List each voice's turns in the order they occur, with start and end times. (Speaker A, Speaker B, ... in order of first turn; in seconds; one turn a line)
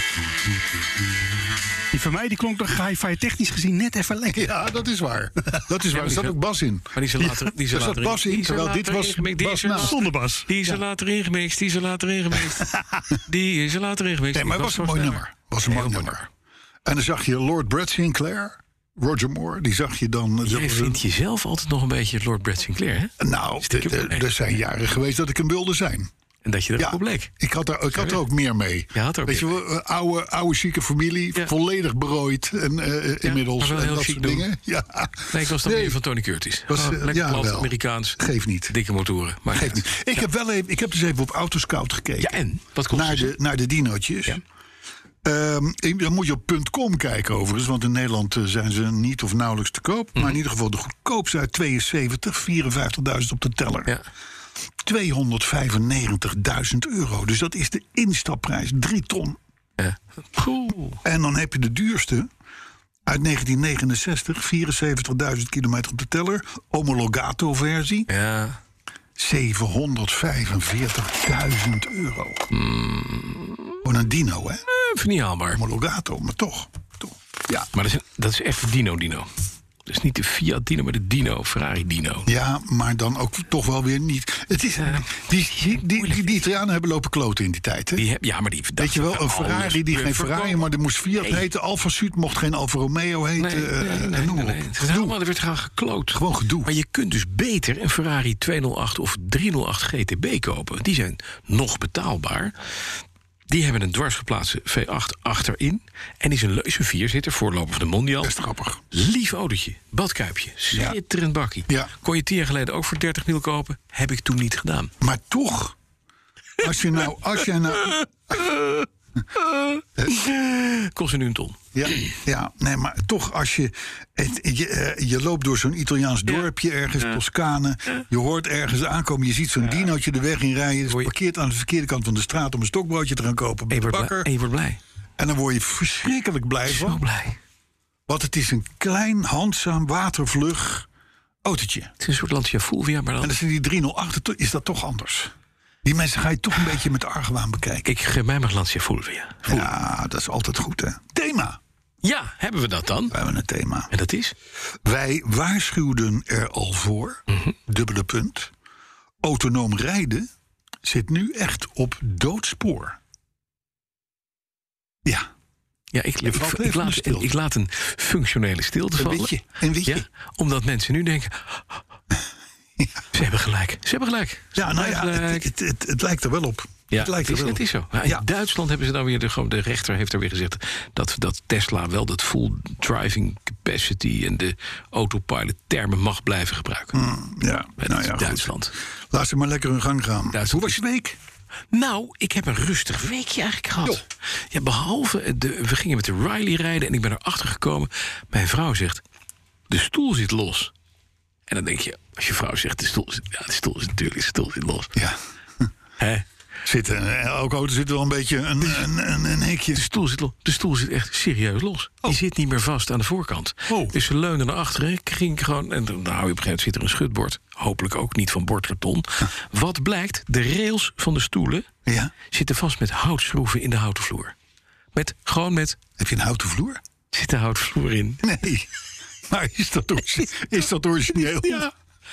Speaker A: 1.9-4.6
Speaker B: 4.3-7.0
Speaker C: 5.9-6.3
Speaker C: 6.9-16.1
Speaker A: 7.2-7.5
Speaker B: 7.7-10.0
Speaker A: 9.7-10.7
Speaker B: 12.5-13.2
Speaker B: 14.3-16.3
Speaker B: 16.9-21.0
Speaker C: 20.4-24.3
Speaker B: 23.2-26.1
Speaker C: 26.4-27.3
Speaker B: 26.8-36.0
Speaker C: 27.9-28.2
Speaker C: 28.9-29.6
Speaker C: 33.2-34.5
Speaker C: 35.3-40.2
Speaker B: 36.7-38.7
Speaker B: 39.5-42.4
Speaker C: 42.2-43.3
Speaker B: 42.9-44.4
Speaker B: 45.2-53.9
Speaker B: 54.8-59.4
Speaker C: 59.8-61.0
Speaker B: 61.0-62.3
Speaker B: 63.0-68.1
Speaker C: 68.1-68.6
Speaker B: 69.2-72.5
Speaker C: 72.5-73.8
Speaker B: 73.8-74.6
Speaker C: 74.7-75.6
Speaker B: 75.5-77.7
Speaker C: 77.7-79.3
Speaker C: 79.8-82.3
Speaker B: 82.2-88.0
Speaker C: 84.8-86.4
Speaker C: 88.0-91.4
Speaker B: 88.8-95.2
Speaker C: 93.4-102.5
Speaker B: 96.1-96.7
Speaker C: 103.5-108.3
Speaker B: 108.2-108.8
Speaker C: 108.9-114.9
Speaker B: 115.0-115.8
Speaker B: 116.6-118.4
Speaker C: 118.3-118.8
Speaker C: 119.4-122.1
Speaker B: 121.7-134.3
Speaker C: 133.7-134.8
Speaker B: 135.2-137.0
Speaker C: 136.7-137.4
Speaker B: 138.1-140.9
Speaker B: 141.4-141.9
Speaker C: 142.0-143.3
Speaker B: 143.2-145.3
Speaker B: 145.8-147.9
Speaker C: 147.8-149.7
Speaker B: 149.4-151.6
Speaker C: 152.0-153.2
Speaker B: 153.1-153.9
Speaker C: 153.9-154.3
Speaker B: 154.8-158.5
Speaker B: 159.2-160.3
Speaker B: 160.8-163.0
Speaker C: 165.9-171.8
Speaker B: 166.2-167.3
Speaker B: 168.9-170.0
Speaker C: 173.1-175.5
Speaker B: 174.6-178.2
Speaker C: 176.9-187.0
Speaker B: 186.9-188.5
Speaker C: 187.8-188.7
Speaker B: 189.1-191.2
Speaker C: 190.3-190.8
Speaker C: 191.7-199.0
Speaker C: 199.7-200.7
Speaker C: 201.5-204.9
Speaker B: 204.9-205.7
Speaker C: 206.0-206.2
Speaker B: 206.6-209.8
Speaker C: 209.7-221.7
Speaker B: 213.7-213.9
Speaker B: 221.8-222.1
Speaker C: 222.3-224.3
Speaker C: 224.9-225.8
Speaker B: 226.0-226.8
Speaker C: 227.1-228.3
Speaker B: 228.2-228.7
Speaker B: 229.3-231.7
Speaker C: 231.2-231.7